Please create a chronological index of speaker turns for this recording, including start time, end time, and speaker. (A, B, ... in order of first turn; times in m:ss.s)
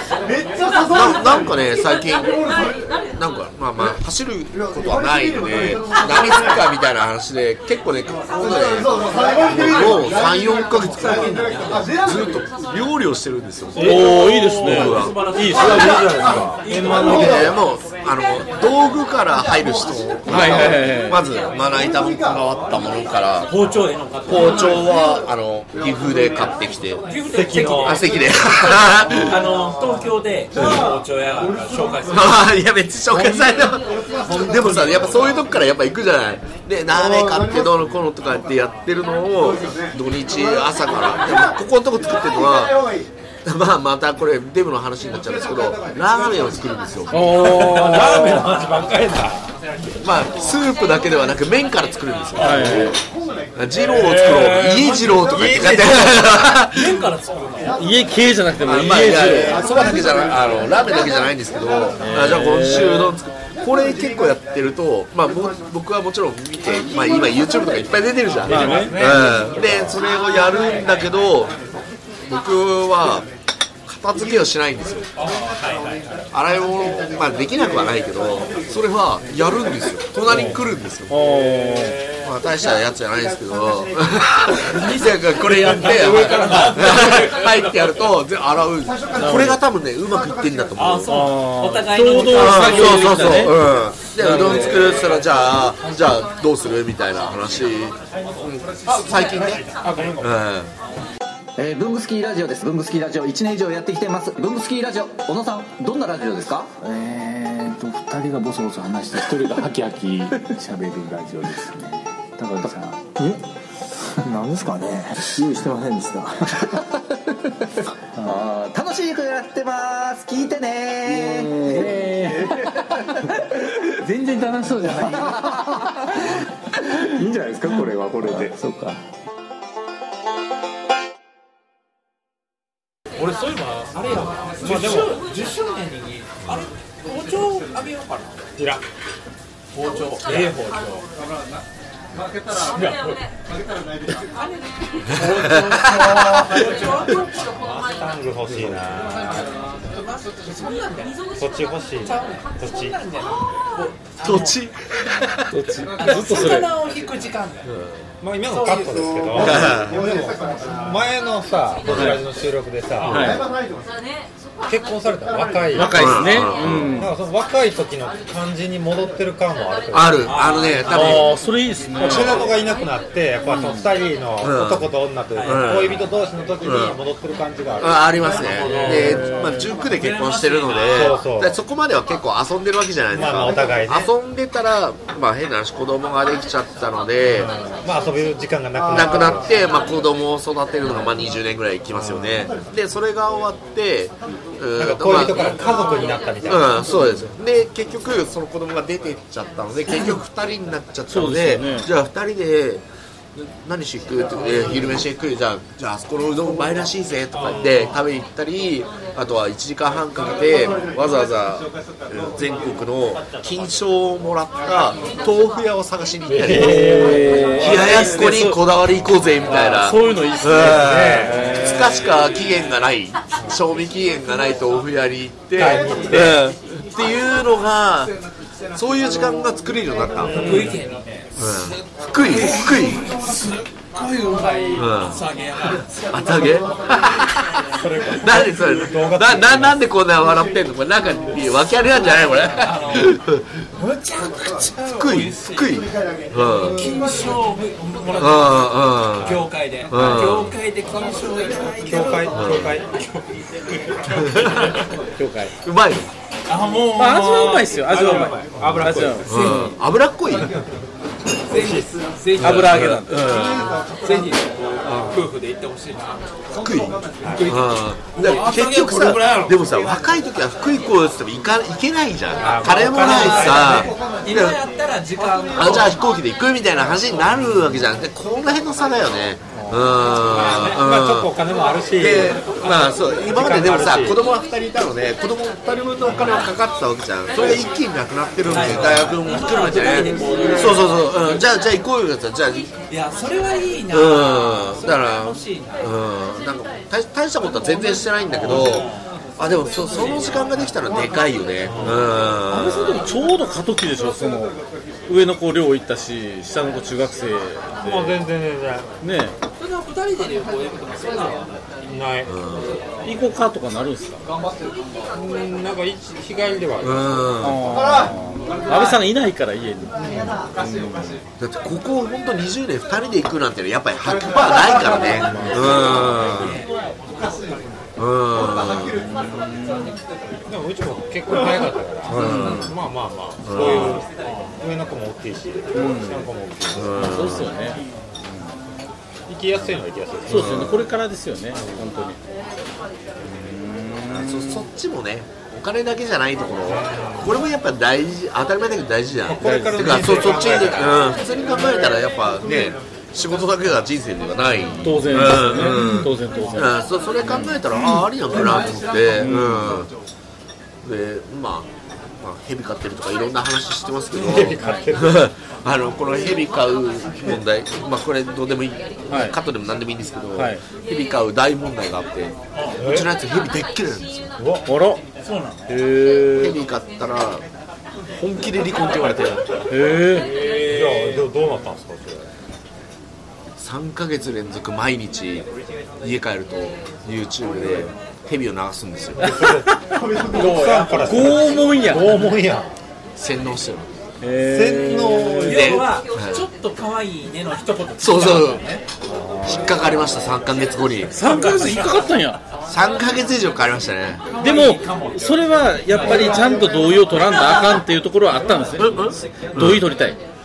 0:00.9-0:15.3 A
0:11.1-0:11.9 B
0:13.8-0:14.2 C
0:13.8-0:16.3 D
0:13.8-0:17.5 B
0:15.4-0:17.6 C
0:17.0-0:23.5 A
0:20.3-0:21.2 D
0:23.5-0:25.0 B
0:24.2-0:27.0 A
0:27.1-0:32.5 B
0:27.3-0:28.2 C
0:27.6-0:29.4 A
0:30.6-0:30.8 A
0:32.1-0:42.8 A
0:33.1-0:33.6 C
0:34.3-0:35.1 C
0:43.4-0:47.4 A
0:47.1-0:48.6 D
0:47.3-0:49.5 C
0:48.0-0:48.4 B
0:49.6-0:50.0 B
0:50.0-0:53.0 A
0:52.4-0:53.0 D
0:52.6-0:52.9 C
0:53.5-0:57.0 A
0:53.9-0:56.3 C
0:56.7-0:57.8 B
0:57.8-0:59.8 D
0:58.6-1:11.6 A
0:59.7-1:00.3 C
1:02.0-1:03.1 D
1:08.4-1:09.0 D
1:08.5-1:09.1 B
1:08.6-1:10.0 C
1:12.2-1:13.3 A
1:13.9-1:15.1 A
1:15.2-1:16.2 B
1:16.3-1:21.2 A
1:20.3-1:20.6 D
1:21.1-1:22.0 D
1:22.2-1:31.2 A
1:24.7-1:27.9 B
1:29.2-1:29.6 D
1:30.8-1:33.6 B
1:31.1-1:33.7 D
1:32.2-1:39.7 A
1:34.2-1:35.0 D
1:34.2-1:36.1 B
1:39.5-1:40.1 C
1:39.8-1:40.2 B
1:40.2-1:40.7 A
1:41.6-1:53.4 E
1:54.1-2:09.0 E
2:13.2-2:18.5 B
2:14.6-2:15.2 C
2:18.6-2:18.8 C
2:19.7-2:21.1 B
2:20.3-2:20.6 C
2:22.5-2:23.3 B
2:24.2-2:27.4 B
2:25.9-2:26.6 A
2:27.5-2:29.5 C
2:29.2-2:31.2 B
2:31.3-2:33.0 C
2:32.0-2:34.6 B
2:34.2-2:35.6 A
2:35.5-2:36.7 D
2:35.9-2:37.7 B
2:37.6-2:38.1 A
2:38.2-2:43.5 C
2:38.5-2:39.6 B
2:39.4-2:40.1 A
2:41.9-2:42.1 A
2:41.9-2:42.2 D
2:43.0-2:43.5 D
2:43.0-2:43.3 B
2:44.6-2:50.4 C
2:45.7-2:47.1 D
2:45.8-2:47.0 A
2:49.9-2:51.3 A
2:50.2-2:51.2 B
2:50.9-2:52.5 D
2:50.9-2:51.3 C
2:52.0-2:59.3 C
2:52.0-2:52.5 A
2:53.4-2:54.0 D
2:54.4-2:56.1 A
2:55.3-2:55.7 B
2:56.6-2:57.0 A
2:57.8-3:07.5 A
2:58.6-2:59.1 B
2:58.6-2:59.7 D
2:59.8-3:01.2 B
3:00.9-3:01.6 C
3:03.1-3:04.1 C
3:07.2-3:09.6 C
3:08.9-3:15.6 A
3:11.9-3:12.5 C
3:14.7-3:17.3 C
3:16.4-3:22.8 A
3:21.1-3:21.9 D
3:23.3-3:48.1 A
3:36.3-3:38.1 C
3:36.5-3:38.6 D
3:39.5-3:42.1 D
3:40.4-3:41.5 C
3:45.5-3:46.4 C
3:48.7-3:50.5 A
3:50.2-3:51.4 B
3:50.4-3:50.8 D
3:51.4-3:53.1 A
3:52.2-3:55.9 B
3:54.8-3:55.2 A
3:56.1-4:03.4 A
3:57.8-3:59.8 C
4:02.6-4:03.2 B
4:03.7-4:05.8 B
4:04.8-4:06.9 A
4:06.4-4:07.3 C
4:06.7-4:14.8 B
4:08.2-4:10.5 A
4:11.7-4:12.9 C
4:12.3-4:12.8 A
4:14.2-4:14.8 A
4:15.2-4:15.5 D
4:15.6-4:16.1 A
4:16.5-4:18.4 B
4:17.0-4:19.7 D
4:18.1-4:19.3 C
4:19.1-4:19.7 B
4:19.2-4:20.6 A
4:21.5-4:23.0 B
4:21.5-4:22.0 C
4:22.4-4:24.0 A
4:22.4-4:23.4 D
4:23.6-4:26.2 B
4:24.8-4:25.3 A
4:26.5-4:34.6 A
4:27.2-4:29.7 B
4:32.4-4:34.0 C
4:32.8-4:36.0 B
4:35.5-4:41.4 A
4:39.6-4:39.8 C
4:40.3-4:40.8 B
4:40.4-4:42.8 C
4:42.0-4:52.7 A
4:43.3-4:44.2 C
4:46.1-4:46.4 C
4:48.5-4:51.0 B
4:48.6-4:49.0 D
4:50.0-4:50.8 D
4:52.9-4:55.8 B
4:53.9-5:03.0 A
4:58.4-4:59.0 B
4:59.9-5:00.4 B
5:01.7-5:01.9 B
5:02.5-5:08.2 D
5:07.8-5:08.9 C
5:09.0-5:09.4 D
5:09.6-5:11.6 B
5:11.8-5:12.3 C
5:12.2-5:12.8 A
5:13.0-5:14.2 D
5:15.1-5:18.2 C
5:16.8-5:17.7 A
5:17.4-5:21.2 D
5:21.4-5:26.6 A
5:25.2-5:26.0 D
5:25.4-5:27.3 B
5:28.0-5:29.0 A
5:29.0-5:30.0 D
5:30.5-5:37.1 C
5:32.0-5:32.8 A
5:32.2-5:32.6 D
5:33.4-5:34.0 A
5:34.2-5:34.6 B
5:35.7-5:36.3 D
5:36.7-5:37.5 A
5:37.0-5:38.5 D
5:39.3-5:40.6 C
5:39.5-5:42.2 D
5:40.3-5:40.8 A
5:41.6-5:41.9 C
5:43.2-5:44.7 D
5:44.1-5:59.9 A
5:46.6-5:47.3 C
5:49.3-5:51.1 C
5:49.4-5:50.6 D
5:54.8-5:57.5 D
5:55.7-5:56.0 C
5:59.1-5:59.8 D
6:00.8-6:14.3 A
6:04.1-6:05.3 C
6:04.6-6:04.9 D
6:09.1-6:09.4 D
6:10.3-6:10.6 D
6:12.5-6:12.8 B
6:12.8-6:13.1 C
6:14.4-6:14.7 C
6:14.6-6:15.0 D
6:15.2-6:15.7 B
6:15.7-6:16.6 D
6:16.3-6:17.4 A
6:18.1-6:19.6 A
6:19.7-6:20.3 D
6:20.2-6:21.3 B
6:20.6-6:22.3 C
6:23.6-6:25.5 A
6:26.0-6:29.3 A
6:29.2-6:32.7 C
6:29.2-6:32.3 D
6:33.2-6:33.9 A
6:34.2-6:35.7 D
6:34.4-6:35.8 C
6:35.5-6:38.8 B
6:35.5-6:36.4 A
6:38.0-6:38.6 A
6:39.1-6:40.4 D
6:39.4-6:41.2 A
6:41.1-6:42.4 D
6:41.2-6:42.1 B
6:42.7-6:44.2 A
6:44.3-6:46.6 B
6:44.4-6:50.2 D
6:48.8-6:49.9 A